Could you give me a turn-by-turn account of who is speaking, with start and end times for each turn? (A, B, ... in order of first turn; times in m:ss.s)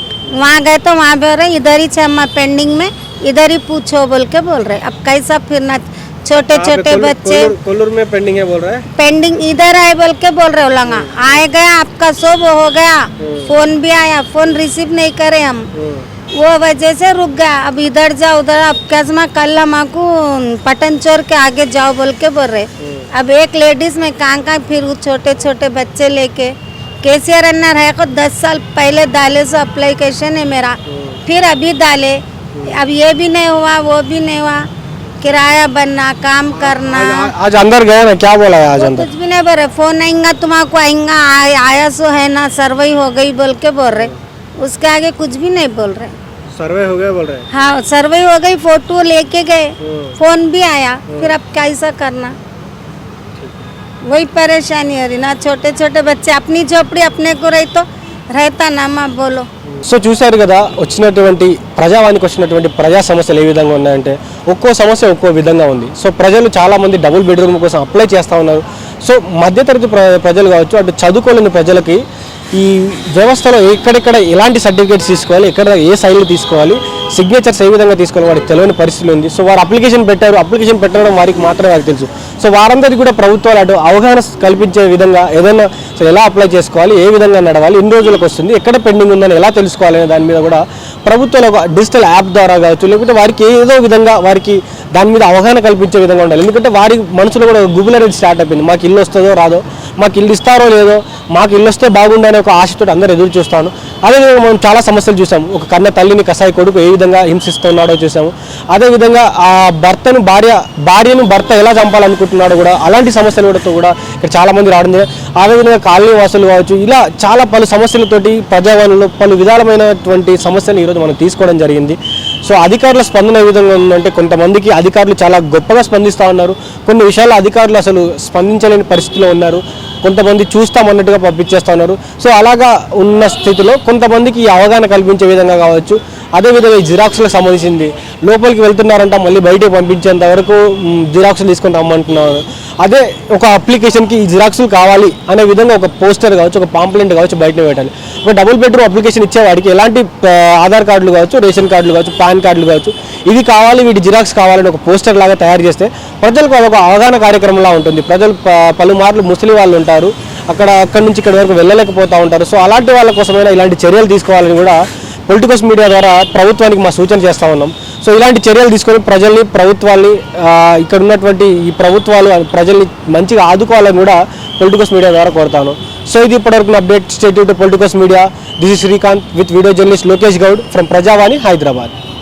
0:00.4-0:07.5 A
0:06.5-0:08.8 B
0:09.0-0:15.6 A
0:10.9-0:11.4 B
0:13.2-0:13.6 B
0:15.8-0:16.1 B
0:16.4-0:34.6 A
0:22.8-0:23.1 B
0:30.9-0:31.2 B
0:35.2-0:37.3 A
0:36.6-0:39.1 B
0:38.8-0:46.1 A
0:46.6-0:47.4 B
0:47.5-0:52.3 A
0:49.8-0:50.2 B
0:54.1-0:59.4 A
0:59.8-1:12.0 B
1:12.5-3:01.9 B